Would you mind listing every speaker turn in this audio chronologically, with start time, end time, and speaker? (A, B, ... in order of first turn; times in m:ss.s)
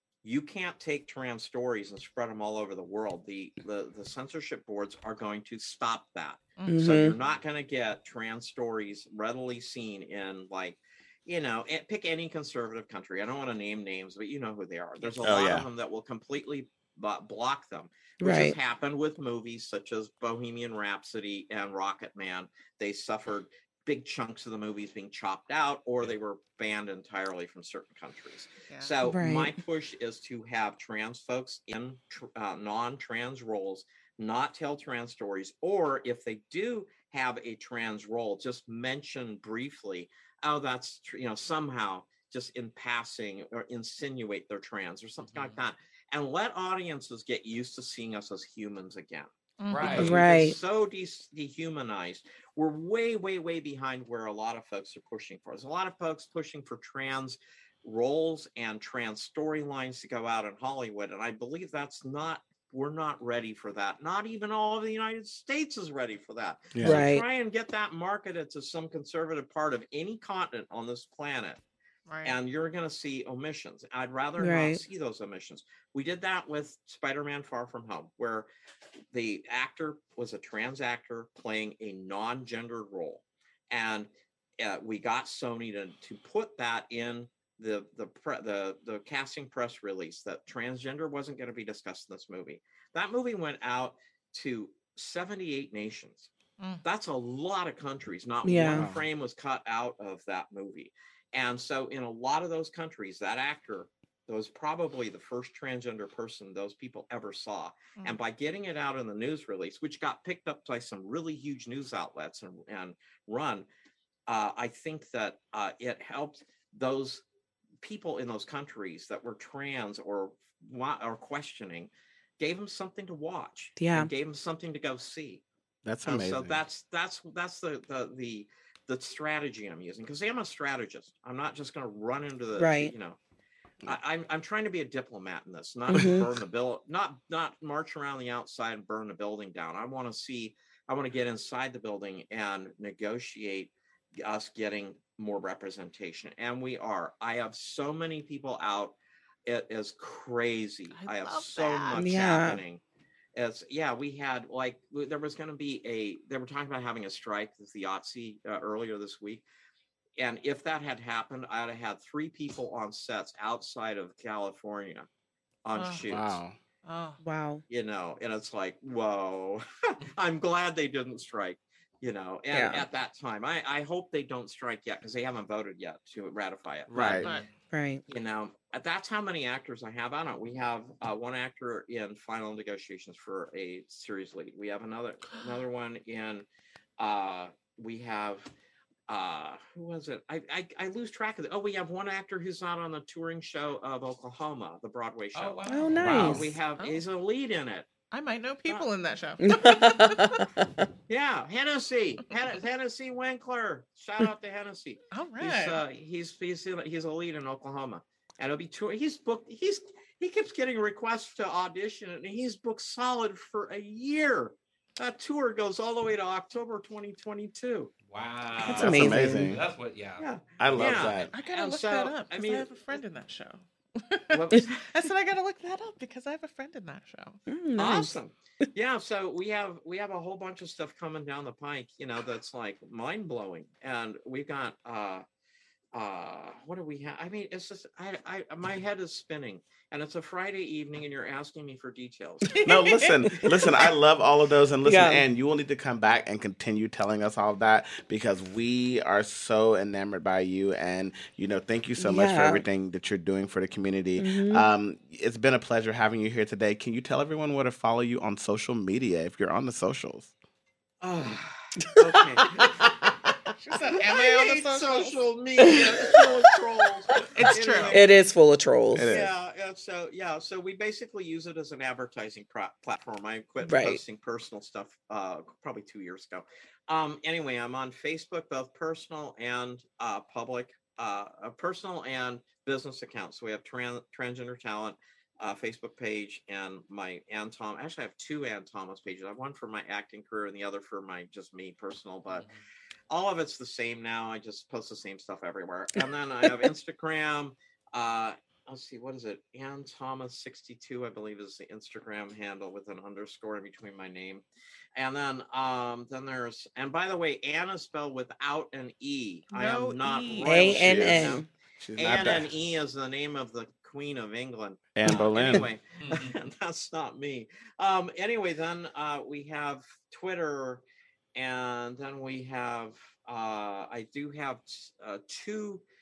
0:00.2-1:11.6 A
0:06.6-0:07.1 B
0:06.7-0:07.2 C
0:15.2-0:15.7 D
0:18.2-0:18.6 C
0:28.7-0:29.0 B
0:29.0-0:29.6 C
0:45.2-0:45.6 E
0:49.6-0:50.2 B
0:49.7-0:50.2 E
0:50.0-0:50.6 C
1:06.7-1:07.0 D
1:06.8-1:07.2 C
1:12.1-1:12.4 B
1:12.2-1:18.5 A
1:14.4-1:14.8 C
1:19.1-1:36.3 A
1:36.6-1:36.8 B
1:36.8-1:53.7 A
1:38.4-1:38.9 C
1:38.7-1:39.1 D
1:54.3-1:57.2 A
1:57.8-2:05.4 A
2:03.8-2:04.1 C
2:05.8-2:06.6 D
2:06.0-2:13.2 A
2:12.6-2:12.9 C
2:13.8-2:29.0 A
2:15.9-2:16.3 C
2:29.5-2:32.8 A
2:30.9-2:32.0 B
2:32.0-2:32.6 C
2:33.4-2:39.4 A
2:40.2-2:45.1 A
2:45.6-2:46.4 A
2:45.8-2:46.1 B
2:46.1-2:46.6 D
2:46.8-2:47.2 B
2:47.2-2:47.6 C
2:47.7-2:57.2 A
2:52.5-2:52.8 C
2:56.9-2:57.3 D
2:57.2-2:57.5 B
2:57.7-2:58.0 C
2:58.1-3:06.5 A
3:07.0-3:08.5 A
3:09.1-3:17.9 A
3:15.3-3:16.2 E
3:15.7-3:16.2 B
3:15.7-3:16.5 C
3:16.0-3:16.4 D
3:18.1-3:20.4 B
3:19.4-3:20.8 C
3:21.1-3:37.9 A
3:25.1-3:25.8 B
3:38.1-3:40.2 E
3:38.7-3:39.6 D
3:38.7-3:39.5 C
3:40.2-3:43.0 A
3:40.6-3:41.3 D
3:40.8-3:41.1 E
3:41.2-3:47.4 B
3:44.3-3:44.8 A
3:47.5-3:48.1 C
3:47.8-3:55.2 A
3:55.9-4:02.6 A
4:02.5-4:03.6 B
4:02.6-4:20.3 D
4:04.8-4:05.2 C
4:12.0-4:12.6 C
4:14.2-4:14.7 C
4:21.0-4:23.0 A
4:23.6-4:25.2 B
4:24.0-4:28.1 A
4:25.6-4:26.5 C
4:27.3-4:28.0 B
4:27.9-4:29.1 C
4:28.9-4:29.4 D
4:29.1-4:52.5 A
4:33.6-4:34.0 C
4:52.3-4:52.6 E
4:53.1-5:04.4 A
5:05.0-5:11.4 A
5:09.5-5:10.8 B
5:10.4-5:11.5 C
5:10.7-5:12.5 D
5:12.0-5:20.8 A
5:15.0-5:15.6 D
5:16.0-5:16.4 E
5:21.4-5:25.8 A